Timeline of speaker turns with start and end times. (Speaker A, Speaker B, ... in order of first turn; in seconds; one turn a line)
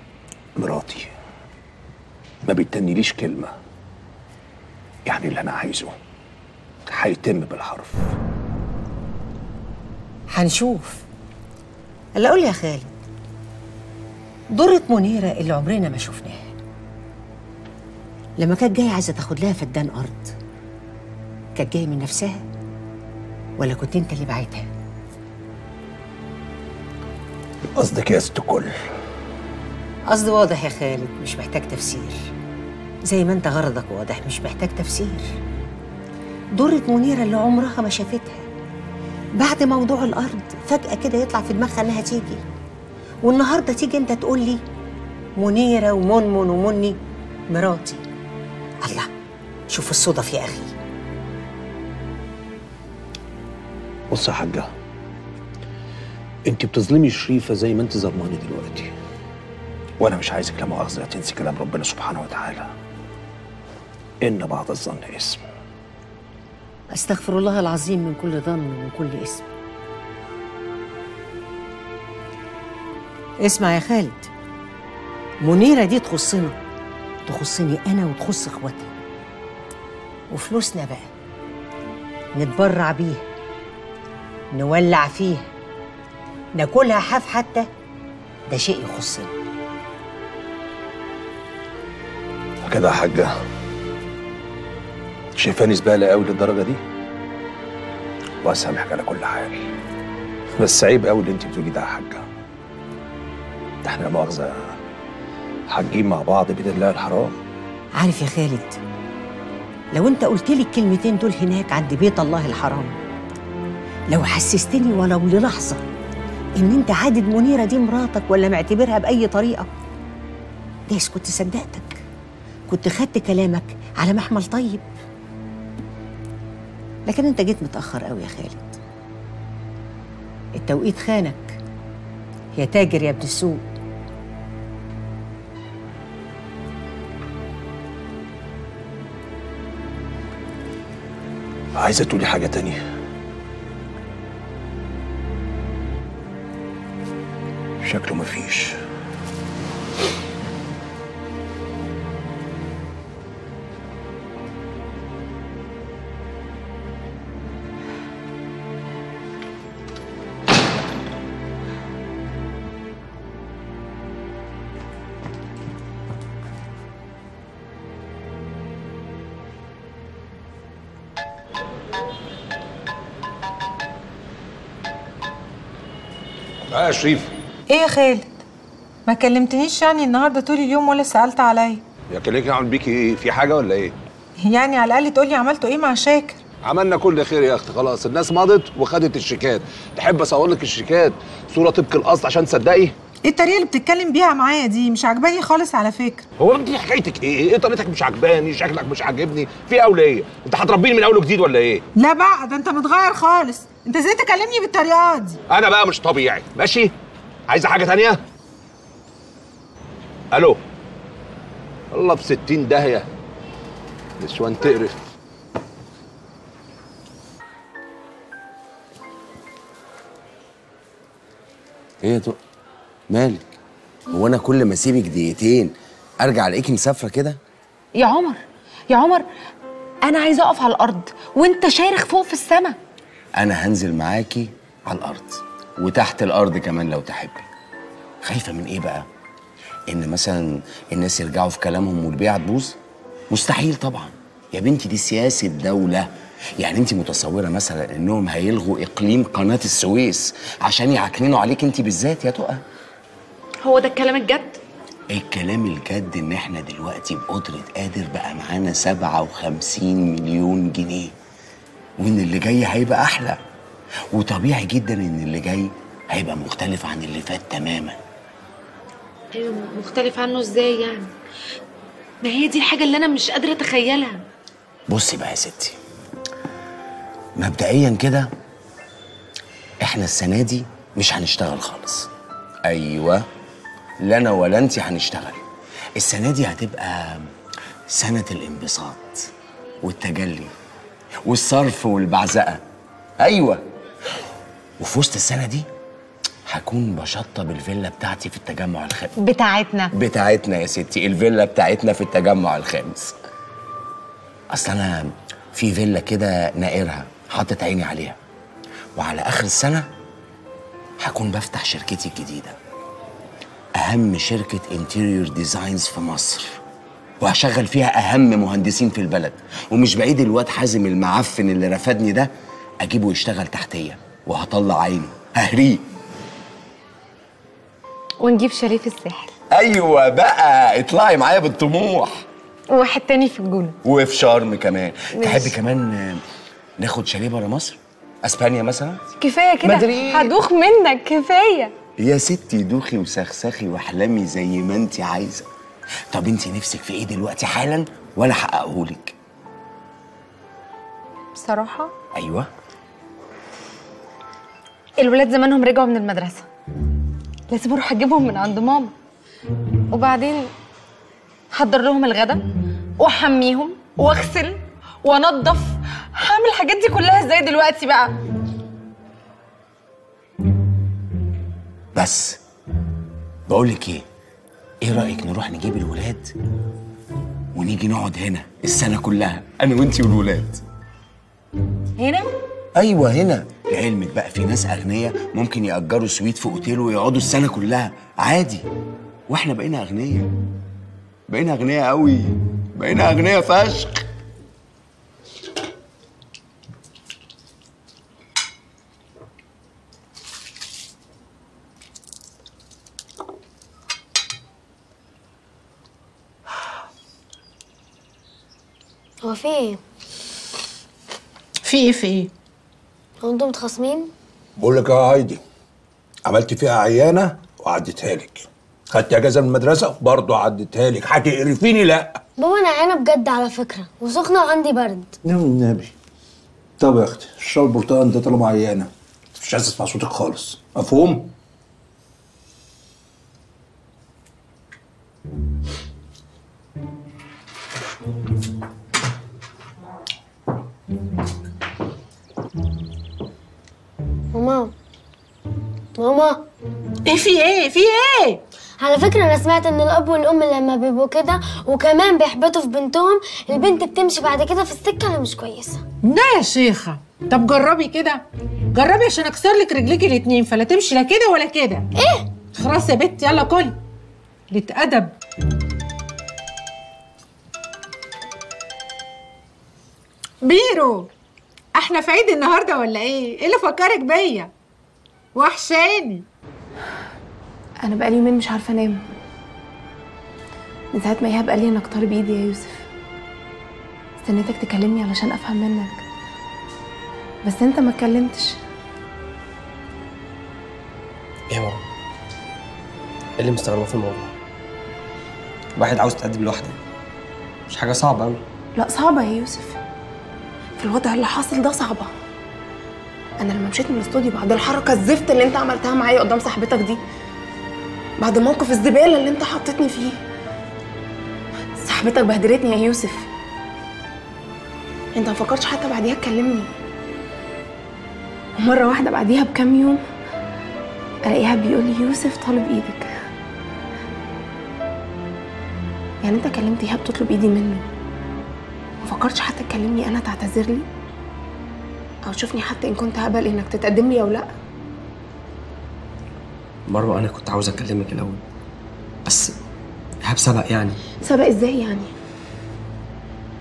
Speaker A: 0.6-1.1
Speaker A: 2.4-3.5
Speaker A: 5.0-5.9
Speaker A: 6.9-8.0
Speaker B: 10.3-11.0
Speaker B: 12.2-12.9
Speaker B: 14.5-16.5
Speaker B: 18.4-20.3
Speaker B: 21.6-22.4
Speaker B: 23.6-24.7
Speaker A: 27.8-28.7
Speaker B: 30.1-32.3
Speaker B: 33.0-35.3
Speaker B: 36.5-38.5
Speaker B: 39.4-42.4
Speaker B: 43.2-44.6
Speaker B: 45.4-47.0
Speaker B: 47.5-48.0
Speaker B: 48.8-49.1
Speaker B: 49.7-50.7
Speaker A: 54.1-54.7
Speaker A: 56.5-58.9
Speaker A: 60.0-62.7
Speaker A: 64.2-65.4
Speaker B: 66.9-69.5
Speaker B: 73.4-74.3
Speaker B: 75.4-76.5
Speaker B: 77.3-78.9
Speaker B: 80.3-81.1
Speaker B: 82.3-83.2
Speaker B: 84.5-85.5
Speaker B: 86.6-87.7
Speaker B: 88.5-89.3
Speaker A: 92.6-93.3
Speaker A: 95.3-96.8
Speaker A: 98.4-99.6
Speaker A: 100.6-102.2
Speaker A: 103.8-104.7
Speaker A: 105.7-107.4
Speaker B: 108.0-108.8
Speaker B: 109.9-113.0
Speaker B: 114.1-115.8
Speaker B: 116.6-119.7
Speaker B: 120.9-122.0
Speaker B: 122.7-124.8
Speaker B: 127.0-128.8
Speaker B: 130.6-131.6
Speaker B: 132.6-133.6
Speaker A: 141.7-142.8
Speaker A: 147.8-148.7
Speaker C: 176.7-177.3
Speaker D: 177.7-178.3
Speaker D: 179.1-181.8
Speaker C: 182.1-183.9
Speaker D: 184.4-186.4
Speaker C: 186.6-192.9
Speaker D: 193.2-196.2
Speaker C: 196.4-201.8
Speaker D: 201.9-205.4
Speaker C: 205.5-206.9
Speaker C: 207.5-208.2
Speaker C: 210.3-210.6
Speaker C: 211.9-213.1
Speaker C: 214.2-214.9
Speaker E: 222.0-222.4
Speaker E: 223.1-223.4
Speaker E: 224.1-227.4
Speaker F: 227.9-228.4
Speaker F: 228.9-229.2
Speaker F: 230.0-232.8
Speaker E: 233.4-237.4
Speaker E: 238.2-239.1
Speaker E: 239.9-242.8
Speaker E: 243.3-246.1
Speaker E: 246.6-252.6
Speaker E: 255.1-261.1
Speaker E: 262.0-263.4
Speaker E: 264.1-268.0
Speaker F: 269.4-271.1
Speaker F: 272.2-274.1
Speaker E: 274.9-275.8
Speaker E: 277.4-278.3
Speaker E: 279.8-282.1
Speaker E: 282.6-283.2
Speaker E: 284.0-285.4
Speaker E: 286.0-287.3
Speaker E: 287.9-289.3
Speaker E: 289.8-290.5
Speaker E: 291.2-292.6
Speaker E: 293.2-293.6
Speaker E: 294.8-295.7
Speaker E: 296.5-299.1
Speaker F: 299.2-299.9
Speaker E: 299.9-303.1
Speaker E: 304.5-308.2
Speaker E: 308.9-309.9
Speaker E: 311.0-312.6
Speaker E: 313.8-316.6
Speaker E: 317.2-325.8
Speaker F: 328.2-329.3
Speaker E: 329.5-332.2
Speaker F: 332.7-333.7
Speaker E: 333.8-336.2
Speaker F: 335.1-335.5
Speaker E: 336.8-339.0
Speaker F: 339.2-341.7
Speaker E: 342.0-345.4
Speaker E: 346.1-349.1
Speaker F: 351.4-351.9
Speaker E: 352.1-352.5
Speaker F: 355.0-356.5
Speaker F: 357.5-358.9
Speaker F: 359.9-360.5
Speaker F: 361.5-362.4
Speaker F: 363.0-368.1
Speaker E: 371.9-372.4
Speaker E: 373.5-374.0
Speaker E: 374.8-376.3
Speaker E: 377.5-380.6
Speaker E: 382.8-388.6
Speaker E: 389.3-390.3
Speaker E: 391.3-394.0
Speaker G: 409.2-409.8
Speaker D: 411.6-412.3
Speaker G: 413.2-414.1
Speaker C: 414.6-415.4
Speaker C: 416.2-422.2
Speaker G: 422.4-425.2
Speaker A: 425.3-425.9
Speaker C: 425.4-425.9
Speaker A: 426.8-428.6
Speaker C: 426.8-428.9
Speaker C: 429.4-431.2
Speaker G: 444.3-444.7
Speaker G: 446.0-446.4
Speaker D: 447.1-448.4
Speaker G: 448.8-455.8
Speaker D: 456.0-458.2
Speaker D: 458.7-461.9
Speaker G: 461.9-462.2
Speaker D: 462.5-463.8
Speaker D: 464.5-465.1
Speaker D: 470.4-471.1
Speaker D: 471.7-474.5
Speaker D: 475.3-476.2
Speaker H: 477.8-479.0
Speaker H: 480.9-482.8
Speaker H: 484.2-486.0
Speaker H: 487.4-488.5
Speaker I: 491.5-491.8
Speaker I: 493.4-494.3
Speaker I: 495.8-496.8
Speaker I: 497.7-498.4
Speaker H: 498.8-499.8
Speaker H: 500.8-502.1
Speaker H: 503.4-507.0
Speaker H: 508.2-510.2
Speaker H: 511.8-513.3
Speaker H: 515.1-516.7
Speaker H: 518.6-520.0
Speaker H: 521.3-523.1
Speaker H: 526.2-527.8
Speaker H: 529.0-530.9
Speaker H: 532.3-534.5
Speaker I: 536.9-538.4
Speaker I: 539.2-539.5
Speaker I: 540.2-541.0
Speaker H: 541.2-542.1